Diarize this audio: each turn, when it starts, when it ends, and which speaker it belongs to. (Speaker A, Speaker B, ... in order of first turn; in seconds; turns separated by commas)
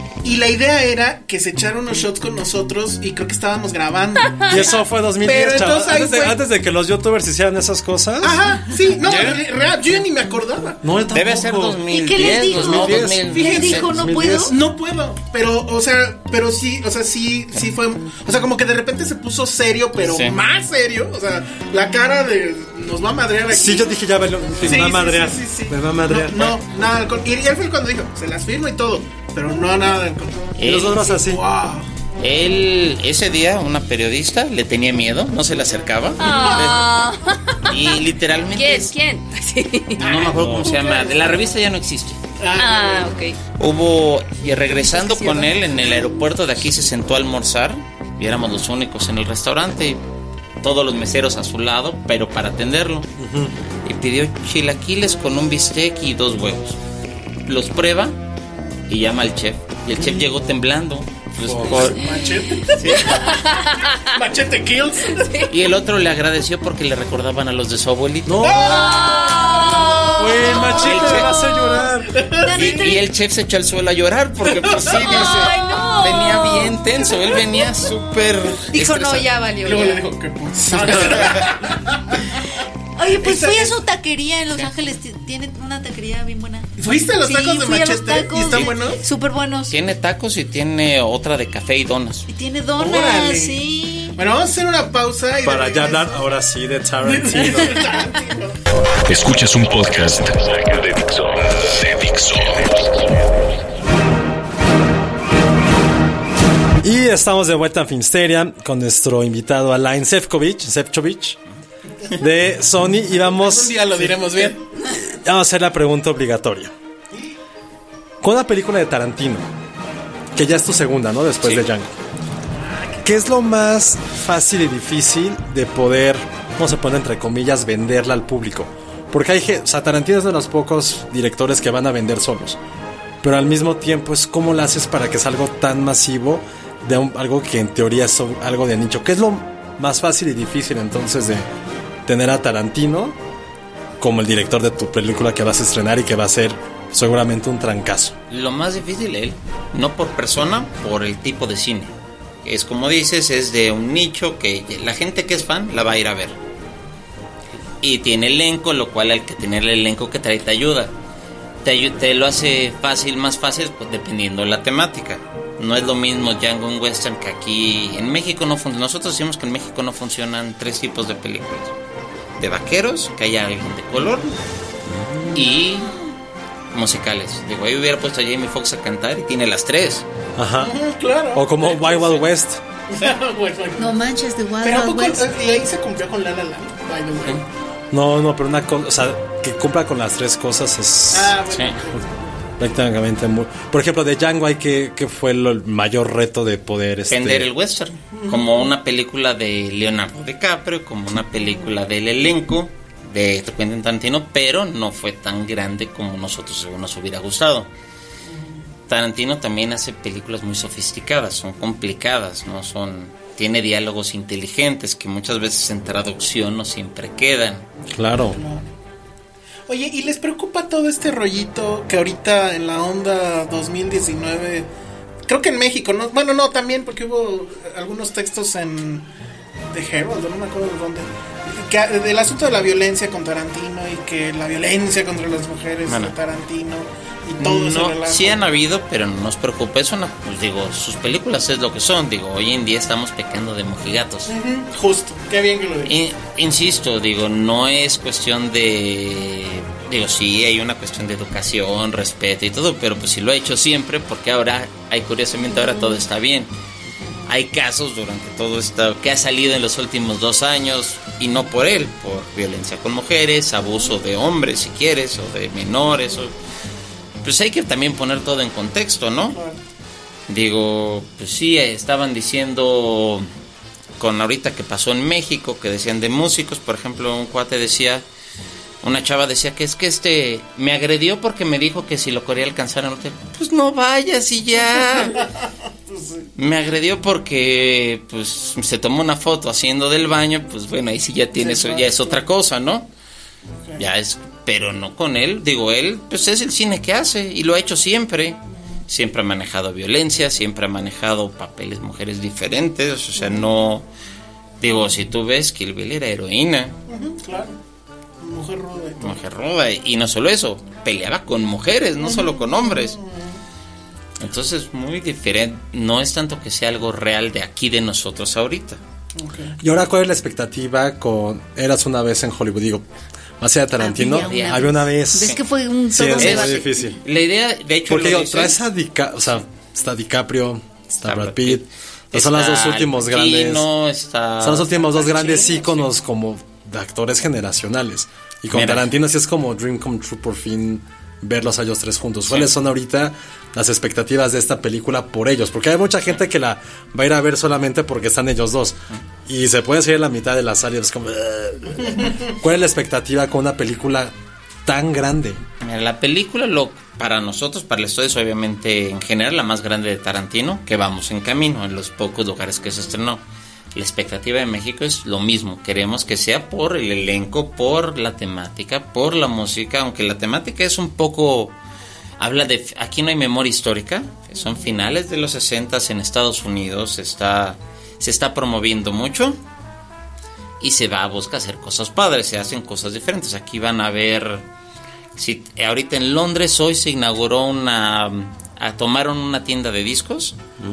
Speaker A: 0.2-6.4, Speaker B: 4.5-8.4, Speaker A: 8.2-10.8, Speaker B: 9.0-9.4, Speaker B: 10.8-14.5, Speaker C: 11.1-13.9, Speaker D: 11.9-14.5, Speaker A: 13.3-13.9, Speaker A: 14.4-23.9, Speaker C: 20.0-20.4, Speaker B: 23.5-26.5, Speaker A: 24.6-30.6, Speaker C: 30.6-31.1, Speaker B: 30.6-31.4, Speaker A: 31.2-31.9, Speaker C: 32.2-36.9, Speaker E: 36.2-37.9, Speaker C: 37.7-38.9, Speaker E: 38.5-40.1, Speaker A: 40.0-41.3, Speaker C: 40.0-42.2, Speaker A: 42.4-43.1, Speaker E: 42.5-43.4, Speaker C: 43.6-50.0, Speaker C: 50.6-53.1, Speaker B: 53.2-53.5, Speaker C: 53.8-56.8, Speaker C: 57.5-58.2, Speaker C: 58.9-62.1, Speaker B: 59.9-60.2, Speaker B: 61.4-61.9, Speaker A: 61.8-63.4, Speaker E: 62.0-62.3, Speaker C: 62.7-63.3, Speaker E: 62.8-64.1, Speaker A: 64.1-65.5, Speaker E: 65.0-65.5, Speaker C: 65.5-68.5, Speaker B: 68.2-68.6, Speaker A: 68.4-69.5, Speaker E: 68.5-70.4, Speaker D: 68.7-73.0, Speaker B: 70.2-72.1, Speaker C: 70.7-71.3, Speaker A: 72.1-72.9, Speaker C: 72.5-79.3, Speaker A: 74.5-75.3, Speaker D: 74.9-76.8, Speaker D: 77.3-77.9, Speaker D: 78.7-80.0, Speaker A: 79.6-82.2, Speaker C: 81.2-81.4, Speaker D: 83.0-89.7, Speaker A: 83.2-83.7, Speaker A: 86.8-89.0, Speaker C: 88.5-88.7, Speaker C: 89.7-92.3, Speaker D: 92.3-94.2, Speaker A: 92.8-93.6, Speaker A: 94.2-96.2, Speaker B: 95.4-97.8, Speaker A: 97.0-98.6, Speaker F: 99.0-102.7, Speaker B: 106.8-111.4, Speaker B: 112.2-114.1, Speaker A: 113.1-114.7, Speaker B: 114.9-116.7, Speaker B: 118.2-119.4, Speaker B: 120.3-121.9, Speaker A: 122.6-123.1, Speaker B: 123.0-132.6, Speaker B: 133.2-141.4, Speaker B: 142.1-143.2, Speaker B: 144.0-148.1, Speaker C: 148.3-151.9, Speaker C: 152.4-156.4, Speaker C: 157.8-160.9, Speaker C: 161.6-171.7, Speaker C: 172.4-174.3, Speaker B: 175.0-175.3, Speaker C: 175.3-175.9, Speaker C: 176.7-180.1, Speaker B: 180.3-180.7, Speaker A: 180.6-181.6, Speaker B: 181.3-182.6, Speaker C: 181.7-182.1, Speaker A: 182.9-184.0, Speaker D: 183.8-185.3, Speaker A: 184.6-187.4, Speaker B: 187.9-191.3, Speaker A: 191.1-192.2, Speaker C: 191.5-191.8, Speaker B: 192.6-197.5, Speaker C: 197.1-207.7, Speaker A: 198.1-198.7, Speaker A: 208.3-208.6, Speaker C: 208.9-217.7, Speaker B: 217.9-218.4, Speaker A: 218.3-218.7, Speaker A: 219.7-224.7, Speaker A: 225.3-229.1, Speaker A: 229.7-238.4, Speaker C: 235.9-236.1, Speaker C: 237.4-244.3, Speaker A: 244.3-245.9, Speaker C: 245.8-256.5, Speaker C: 257.3-266.3, Speaker C: 267.2-269.4, Speaker C: 270.3-273.3, Speaker C: 274.0-278.0, Speaker C: 278.8-285.2, Speaker A: 284.7-286.3, Speaker C: 286.4-292.9, Speaker A: 291.4-292.2, Speaker C: 293.8-303.9, Speaker C: 304.6-306.7, Speaker A: 306.9-307.6, Speaker A: 308.2-309.2, Speaker C: 309.0-312.9, Speaker A: 312.0-313.4, Speaker C: 314.2-318.8, Speaker A: 319.2-319.6, Speaker B: 319.6-322.8, Speaker B: 323.4-327.0, Speaker D: 323.8-326.9, Speaker C: 324.1-325.4, Speaker C: 326.1-328.6, Speaker B: 327.9-333.6, Speaker C: 330.9-335.3, Speaker B: 334.4-354.1, Speaker A: 335.0-335.7, Speaker C: 338.5-338.9, Speaker B: 354.6-355.4, Speaker C: 355.6-363.2, Speaker C: 363.7-371.5, Speaker C: 372.2-379.4, Speaker C: 380.6-384.4, Speaker C: 385.1-390.4